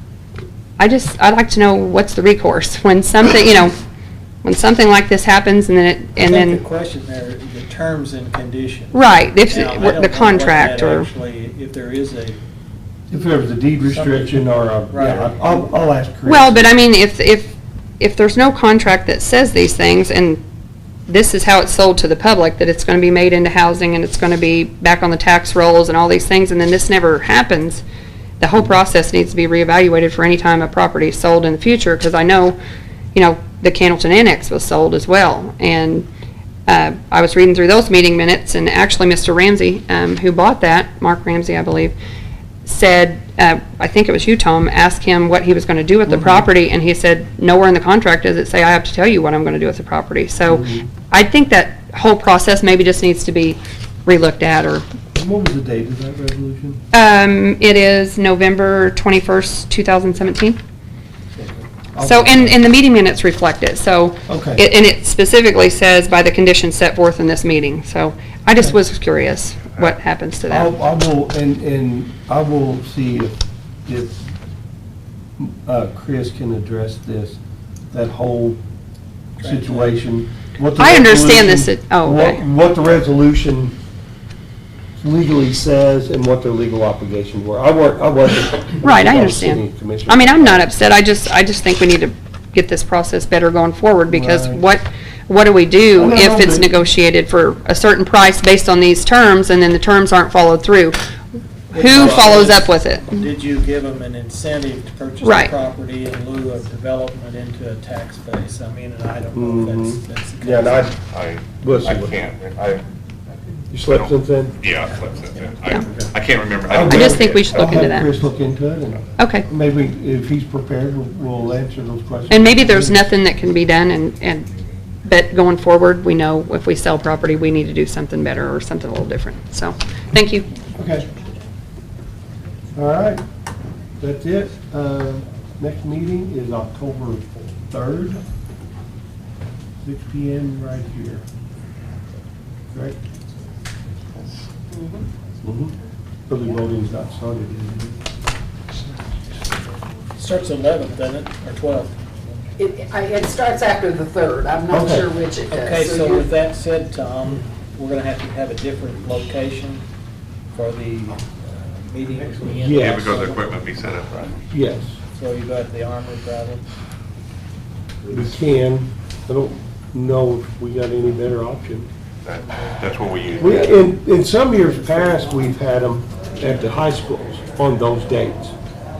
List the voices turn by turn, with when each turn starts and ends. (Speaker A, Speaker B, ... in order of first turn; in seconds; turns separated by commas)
Speaker A: 0.8-3.7, Speaker A: 4.4-6.6, Speaker B: 6.2-12.4, Speaker A: 8.9-11.1, Speaker C: 13.1-16.7, Speaker B: 13.8-14.4, Speaker B: 14.9-15.6, Speaker A: 16.3-20.4, Speaker A: 21.1-27.8, Speaker A: 28.4-32.6, Speaker A: 33.1-36.0, Speaker A: 36.7-41.9, Speaker A: 42.6-54.8, Speaker C: 46.1-46.5, Speaker C: 50.4-50.9, Speaker C: 55.1-56.8, Speaker A: 56.9-60.6, Speaker C: 61.3-62.6, Speaker A: 62.0-70.7, Speaker C: 64.3-64.6, Speaker C: 70.5-74.3, Speaker C: 75.4-77.4, Speaker C: 77.9-78.6, Speaker B: 79.4-80.0, Speaker C: 79.4-83.7, Speaker A: 80.8-82.4, Speaker C: 85.0-90.7, Speaker A: 88.8-101.0, Speaker C: 94.1-94.6, Speaker C: 95.9-96.7, Speaker B: 101.7-110.9, Speaker A: 101.7-103.1, Speaker C: 101.9-102.6, Speaker A: 105.2-105.5, Speaker C: 109.3-111.0, Speaker D: 111.1-112.8, Speaker C: 111.6-112.2, Speaker C: 113.7-114.6, Speaker D: 113.9-117.5, Speaker C: 116.7-123.1, Speaker A: 116.8-118.1, Speaker A: 119.2-119.5, Speaker A: 122.3-124.5, Speaker A: 125.0-130.5, Speaker C: 130.8-131.1, Speaker C: 132.7-133.2, Speaker C: 134.0-138.2, Speaker C: 139.8-141.2, Speaker C: 142.7-143.0, Speaker E: 144.7-145.0, Speaker C: 145.4-145.7, Speaker C: 146.3-148.0, Speaker B: 150.2-152.3, Speaker E: 152.6-156.3, Speaker C: 154.7-155.1, Speaker B: 155.5-159.8, Speaker B: 160.5-163.6, Speaker C: 162.5-163.1, Speaker D: 162.7-164.4, Speaker C: 164.5-165.0, Speaker B: 165.1-166.6, Speaker C: 168.1-171.9, Speaker D: 172.2-173.8, Speaker C: 173.4-178.5